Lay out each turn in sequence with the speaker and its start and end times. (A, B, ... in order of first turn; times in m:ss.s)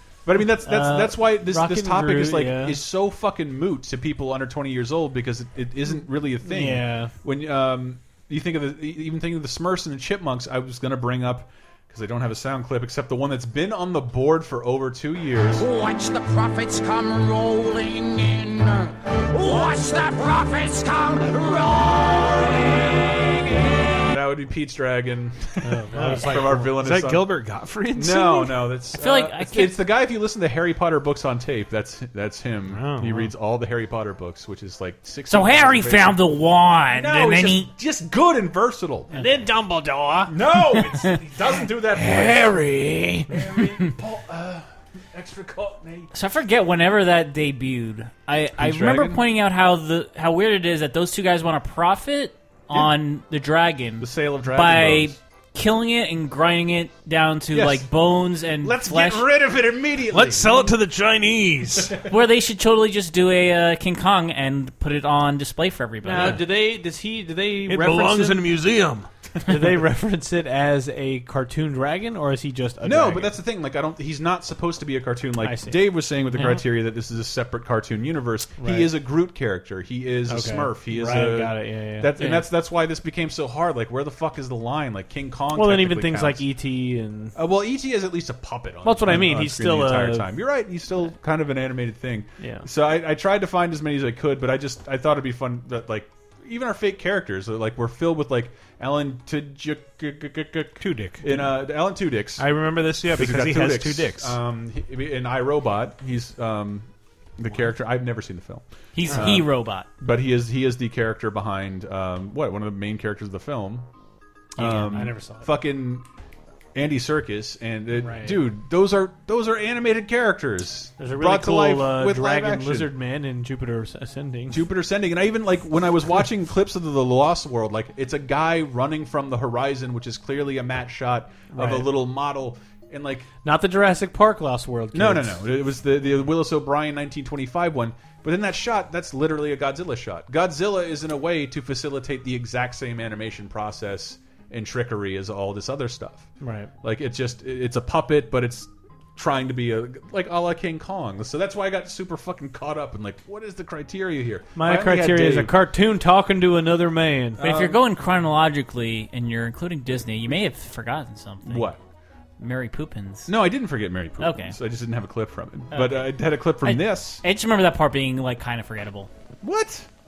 0:00.2-0:15.6 A
0:00.6-0:02.8 B
0:06.4-0:07.1 B
0:15.6-0:24.0 C
0:23.9-0:27.3 A
0:25.6-0:26.7 B
0:25.9-0:28.7 D
0:27.9-0:36.2 A
0:28.9-0:29.8 E
0:32.7-0:33.3 D
0:35.3-0:37.7 E
0:36.9-0:39.2 A
0:39.1-0:40.3 B
0:40.3-0:42.6 A
0:41.9-0:43.3 D
0:43.3-0:46.1 A
0:46.1-0:59.3 E
0:48.6-0:49.2 A
0:54.0-0:55.2 A
0:57.5-0:57.9 A
0:58.6-1:00.7 A
1:00.1-1:02.0 D
1:02.0-1:06.4 E
1:06.0-1:08.5 B
1:07.7-1:09.1 D
1:09.5-1:13.3 B
1:12.8-1:26.4 A
1:15.4-1:15.8 B
1:18.6-1:18.9 B
1:20.3-1:22.2 B
1:22.2-1:22.4 E
1:25.5-1:27.4 B
1:27.3-1:42.5 A
1:28.8-1:30.3 B
1:32.4-1:32.7 B
1:40.8-1:41.5 D
1:42.4-1:44.4 D
1:43.1-1:53.9 A
1:48.9-1:49.9 E
1:54.6-1:55.5 B
1:54.6-1:56.0 A
1:56.7-2:02.9 A
1:57.9-1:58.4 B
2:01.0-2:04.6 B
2:04.5-2:13.3 A
2:11.5-2:11.9 B
2:13.4-2:15.5 B
2:14.9-2:26.3 A
2:26.4-2:26.7 B
2:26.8-2:35.5 A
2:34.5-2:37.5 B
2:37.4-2:37.8 A
2:37.4-2:41.7 E
2:41.4-2:41.8 A
2:42.4-2:43.3 E
2:43.3-2:47.2 A
2:44.2-2:44.6 E
2:45.7-2:49.1 E
2:49.4-2:49.9 A